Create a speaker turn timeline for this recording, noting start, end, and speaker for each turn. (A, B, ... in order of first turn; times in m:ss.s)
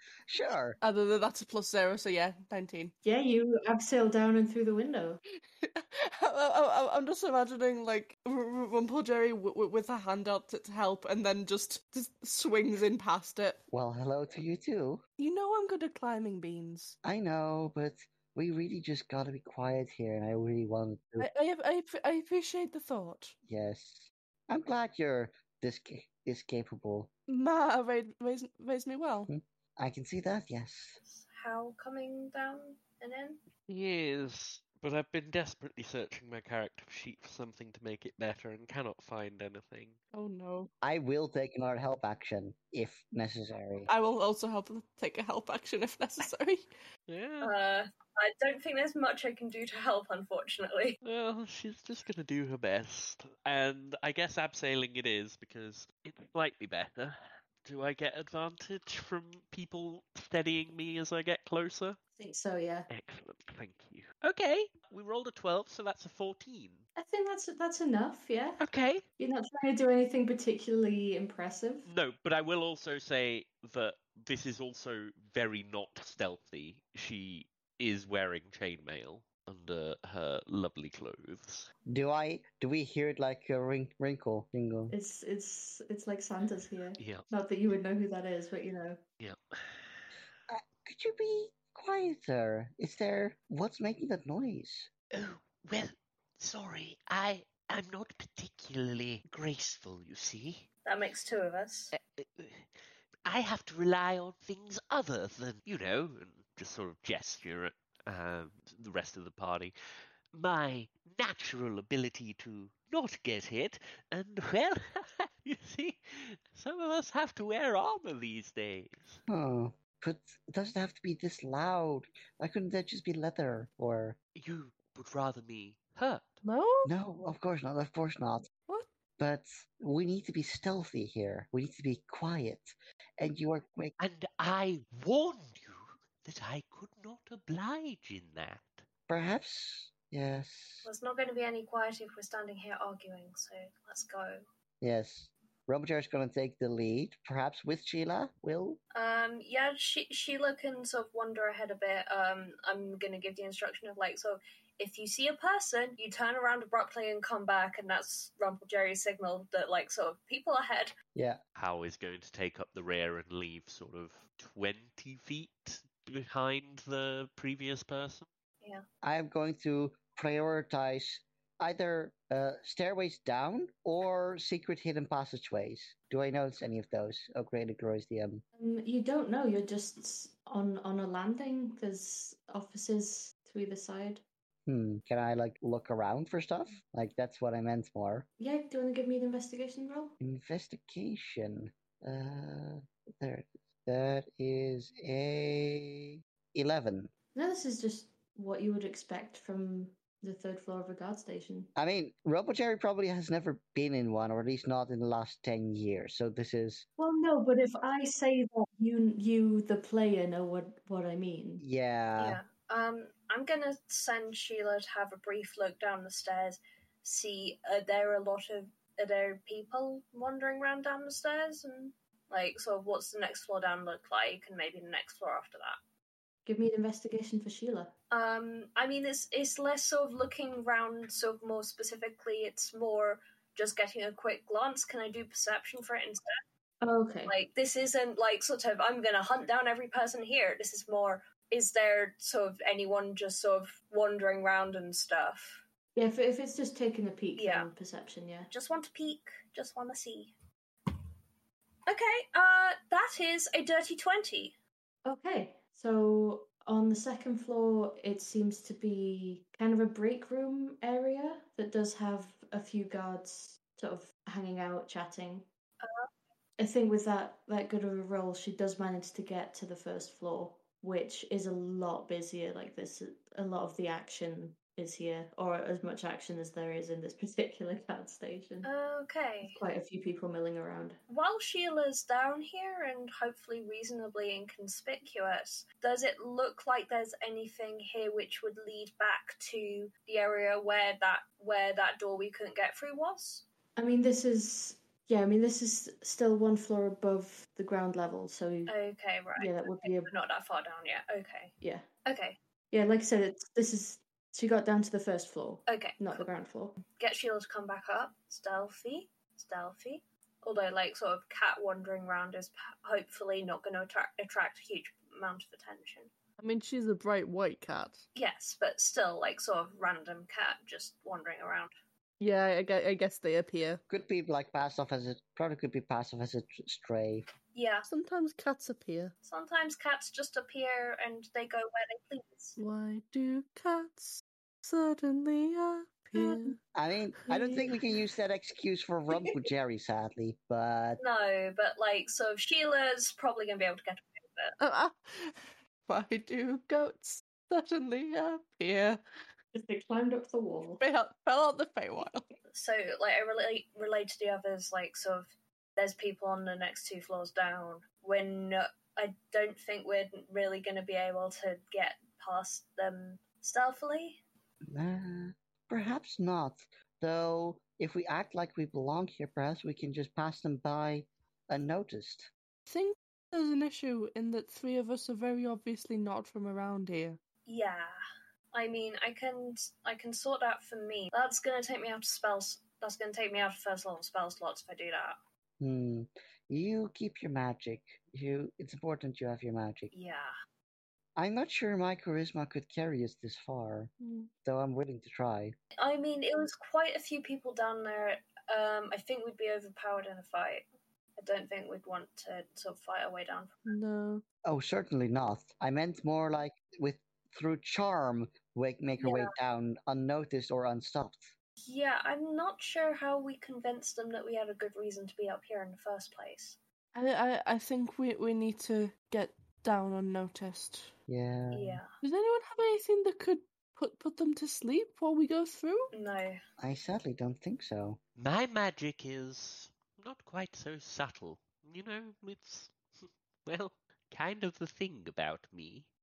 0:00.3-0:00.8 A
0:00.8-0:02.9 B
0:03.0-0:05.2 C
0:05.6-0:13.6 B
0:13.7-0:15.0 A
0:15.2-0:17.0 B
0:17.0-0:21.3 A
0:21.2-0:23.3 B
0:23.5-0:27.1 A
0:27.3-0:29.3 B
0:29.3-0:31.0 A
0:31.0-0:33.4 D
0:33.7-0:40.0 E
0:40.1-0:40.7 B
0:40.8-0:43.9 A
0:43.8-0:46.6 B
0:47.1-0:47.5 E
0:47.4-0:51.0 D
0:51.0-1:02.0 E
1:02.2-1:02.9 C
1:02.9-1:06.8 E
1:07.0-1:08.6 C
1:08.6-1:09.0 E
1:09.2-1:11.9 C
1:11.8-1:21.7 E
1:21.9-1:24.9 A
1:24.9-1:29.0 C
1:27.0-1:27.3 E
1:29.2-1:30.0 E
1:30.5-1:34.9 A
1:35.1-1:40.7 E
1:40.8-1:41.9 D
1:41.9-1:42.7 E
1:43.2-1:49.7 E
1:50.3-1:59.2 E
1:59.3-2:04.2 A
2:04.4-2:06.4 E
2:06.4-2:06.9 B
2:06.8-2:08.5 A
2:09.2-2:13.9 A
2:14.0-2:18.8 E
2:19.1-2:20.9 A
2:20.8-2:24.4 D
2:24.8-2:28.8 A
2:28.9-2:40.9 D
2:41.1-2:41.4 A
2:41.6-2:48.2 E
2:49.0-2:58.4 A
2:58.6-3:04.2 C
3:04.7-3:08.3 A
3:08.4-3:10.2 C
3:10.2-3:17.1 A
3:17.3-3:21.7 C
3:21.8-3:26.8 A
3:27.0-3:31.6 C
3:31.6-3:32.4 A
3:32.2-3:45.8 D
3:46.4-3:47.9 C
3:48.1-3:56.4 D
3:56.8-3:57.3 C
3:57.3-4:05.6 D
4:06.0-4:08.5 C
4:07.4-4:07.7 D
4:08.5-4:10.3 D
4:11.8-4:14.5 D
4:15.0-4:25.5 C
4:25.8-4:26.1 D
4:26.6-4:38.7 C
4:38.6-4:39.6 D
4:39.4-4:41.0 C
4:41.1-4:53.4 D
4:53.8-4:58.7 C
4:58.7-5:02.4 D
4:59.4-5:00.1 C
5:01.6-5:01.9 C
5:02.7-5:06.8 C
5:05.7-5:06.2 D
5:06.9-5:16.1 D
5:16.4-5:18.1 B
5:18.1-5:21.7 D
5:22.2-5:23.8 B
5:23.9-5:27.2 A
5:27.5-5:27.9 D
5:27.9-5:29.1 B
5:29.2-5:32.6 D
5:32.6-5:36.6 B
5:36.2-5:36.5 D
5:36.7-5:41.0 A
5:37.3-5:37.6 B
5:41.0-5:44.6 D
5:44.6-5:49.0 B
5:49.5-5:50.8 C
5:50.8-5:52.3 B
5:52.5-6:04.2 D
6:04.7-6:12.3 A
6:12.7-6:17.2 B
6:17.4-6:17.9 D
6:18.5-6:25.2 D
6:25.6-6:29.9 A
6:29.9-6:30.3 D
6:31.2-6:33.9 A
6:34.0-6:34.3 B
6:34.4-6:35.6 A
6:35.8-6:40.7 D
6:41.2-6:43.8 D
6:43.7-6:44.2 B
6:44.4-6:51.3 A
6:49.0-6:49.3 D
6:51.6-6:56.6 D
6:56.9-7:00.9 B
7:01.1-7:01.8 A
7:01.5-7:01.9 D
7:02.0-7:05.9 B
7:05.9-7:06.4 D
7:06.6-7:08.0 A
7:08.2-7:12.7 E
7:13.4-7:15.9 E